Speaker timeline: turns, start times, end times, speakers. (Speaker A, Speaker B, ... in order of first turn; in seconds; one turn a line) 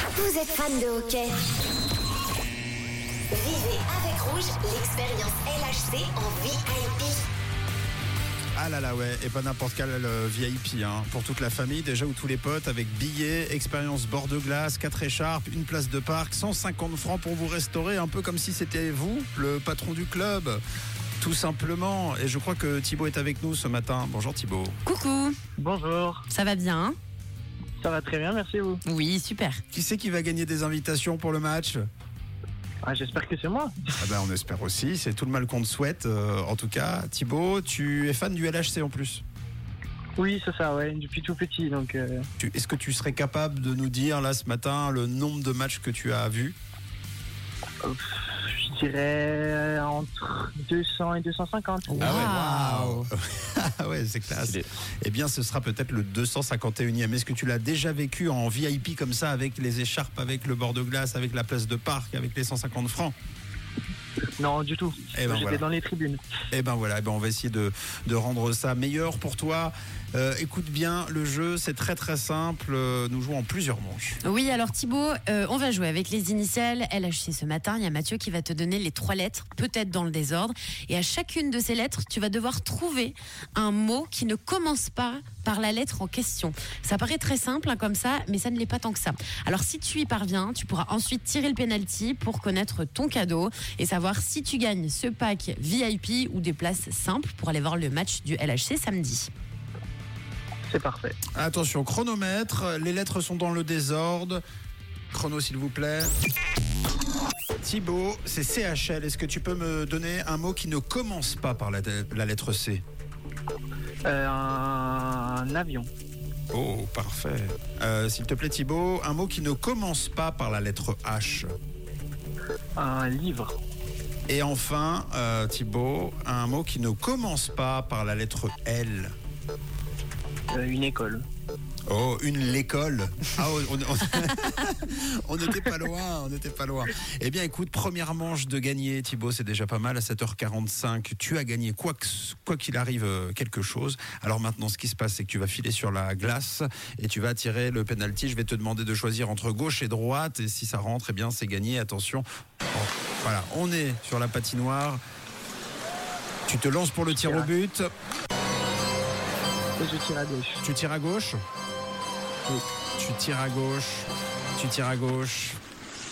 Speaker A: 0.1-1.5
Speaker A: 3.3-7.2
Speaker B: 8.6-20.6
Speaker B: 21.2-24.8
Speaker C: 24.9-25.4
Speaker D: 25.6-26.2
Speaker C: 26.3-26.9
Speaker D: 27.8-28.8
Speaker C: 28.8-29.6
Speaker B: 29.7-31.8
Speaker D: 32.8-33.9
Speaker B: 34.0-39.2
Speaker D: 40.2-42.3
Speaker B: 42.4-46.5
Speaker D: 47.8-52.0
Speaker C: 51.9-53.1
Speaker B: 52.0-63.1
Speaker D: 64.4-66.2
Speaker B: 65.1-65.6
Speaker B: 66.5-74.2
Speaker C: 74.2-99.3
Speaker D: 100.7-101.2
Speaker B: 101.3-104.4
Speaker B: 105.1-106.1
Speaker B: 107.6-112.8
Speaker D: 114.0-115.9
Speaker B: 116.5-121.5
Speaker D: 122.8-123.6
Speaker B: 124.3-129.1
Speaker D: 130.5-131.2
Speaker B: 131.9-155.0
Speaker B: 156.5-157.9
Speaker D: 157.1-157.5
Speaker D: 159.8-160.6
Speaker B: 160.6-161.4
Speaker B: 163.0-165.6